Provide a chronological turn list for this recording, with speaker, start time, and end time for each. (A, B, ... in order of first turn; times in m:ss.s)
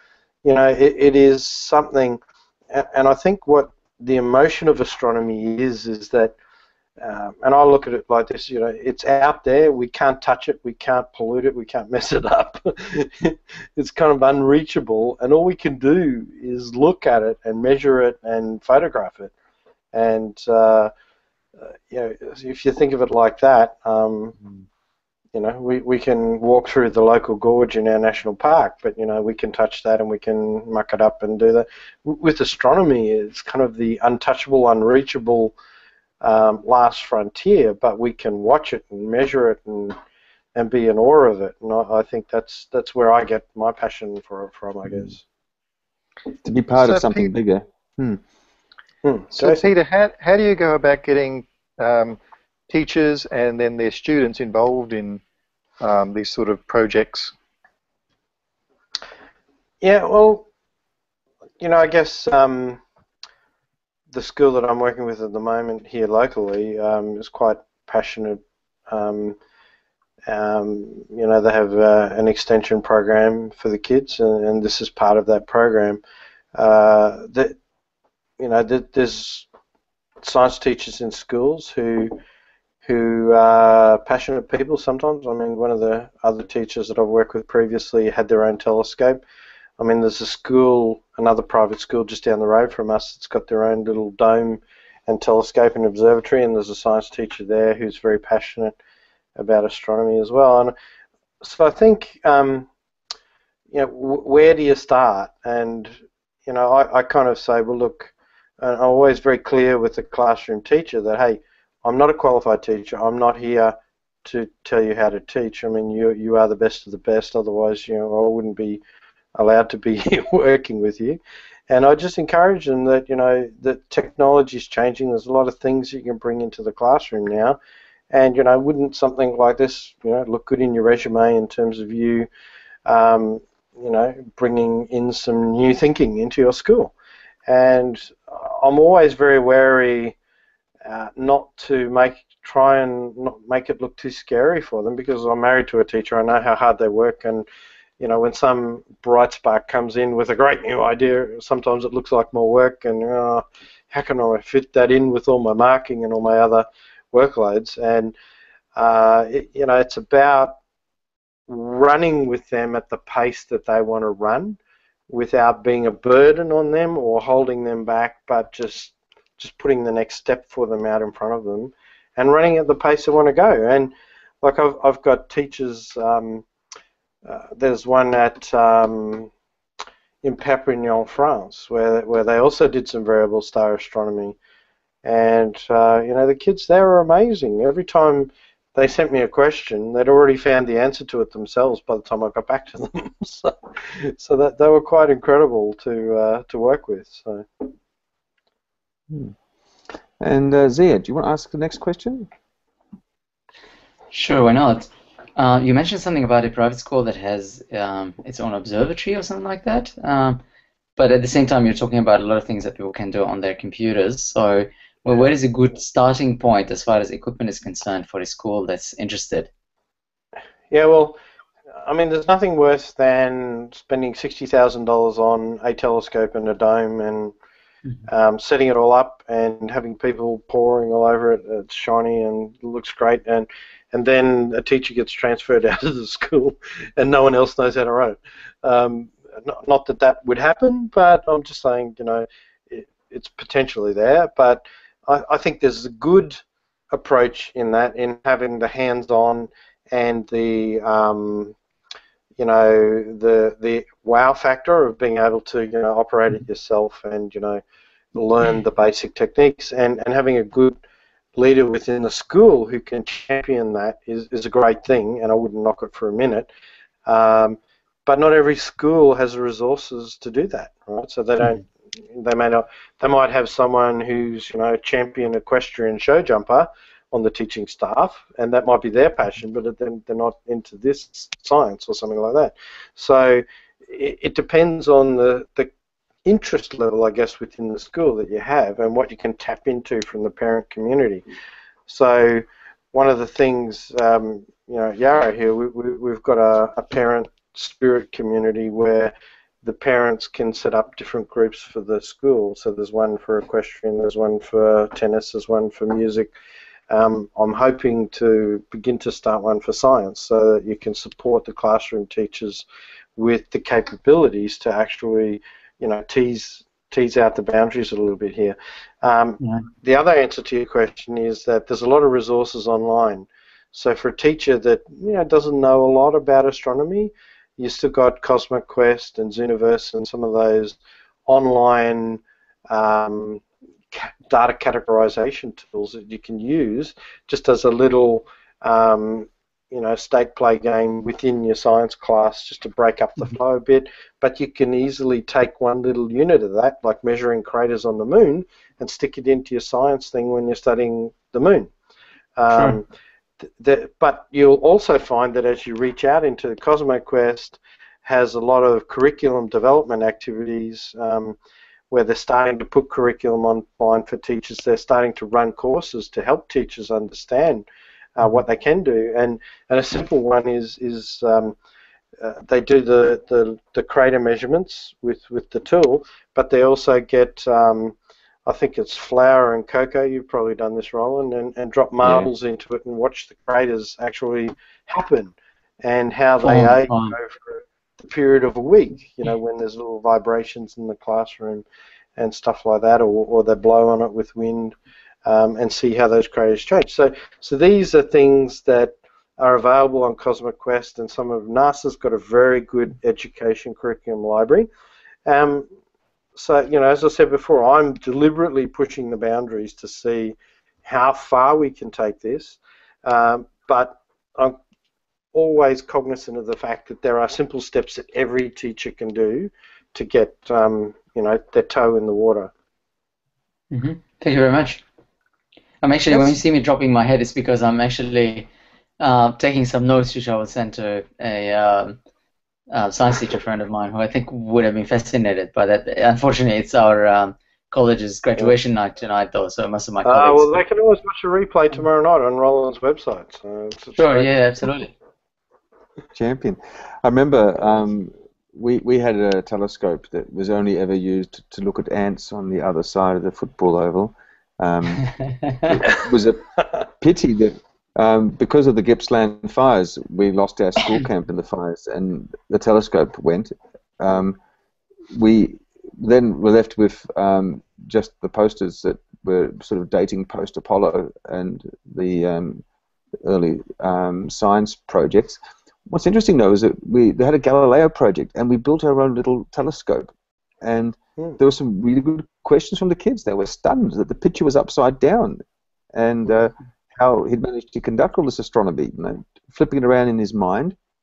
0:00.4-0:02.2 A
0:02.7-0:06.4 A
0:07.0-0:19.3 A
0:19.9-0:20.9 A
0:21.6-0:24.4 A
0:25.3-0:35.6 A
0:36.2-0:40.0 A
0:40.5-0:45.2 A
0:46.4-0:48.2 B
0:46.9-0:47.2 C
0:49.0-0:49.7 A
0:49.3-0:52.2 C
0:52.7-0:55.2 C
0:55.8-0:57.3 C
0:59.8-1:00.5 A
1:01.6-1:02.8 A
1:04.1-1:09.4 A
1:10.3-1:16.0 A
1:16.6-1:17.6 A
1:18.4-1:19.5 A
1:20.2-1:22.2 A
1:22.8-1:29.2 A
1:29.8-1:38.8 A
1:39.4-1:40.7 A
1:41.4-1:42.7 A
1:43.7-1:45.9 A
1:46.4-1:58.8 A
1:59.4-2:01.2 A
2:01.7-2:07.6 A
2:08.1-2:12.3 A
2:12.8-2:16.9 A
2:17.5-2:20.2 A
2:20.8-2:27.4 A
2:28.0-2:38.1 A
2:38.7-2:40.5 A
2:41.5-2:56.4 A
2:57.2-2:59.3 A
3:00.2-3:04.4 A
3:05.0-3:17.5 A
3:20.2-3:22.3 B
3:24.1-3:30.4 D
3:31.0-3:39.5 D
3:40.7-3:41.2 A
3:41.8-3:47.3 A
3:48.1-4:06.4 A
4:06.9-4:11.5 A
4:12.4-4:17.6 A
4:18.1-4:20.8 A
4:21.3-4:26.5 A
4:27.0-4:45.7 A
4:46.2-4:51.2 A
4:51.9-5:06.3 A
5:06.9-5:12.6 A
5:13.2-5:51.7 A
5:19.4-5:19.6 D
5:52.4-5:52.8 A
5:53.6-6:01.4 A
6:01.9-6:07.6 A
6:08.2-6:11.6 A
6:12.2-6:31.6 A
6:26.4-6:27.1 D
6:32.2-6:34.7 A
6:35.2-6:44.7 A
6:45.2-6:45.7 A
6:46.3-6:54.6 A
6:55.3-7:02.5 A
7:03.7-7:04.8 D
7:05.8-7:08.5 D
7:06.1-7:06.4 B
7:09.0-7:12.0 D
7:12.7-7:20.6 D
7:20.0-7:24.3 A
7:24.0-7:24.9 D
7:26.1-7:44.4 B
7:45.1-7:52.6 B
7:53.2-8:05.4 B
8:05.9-8:10.8 B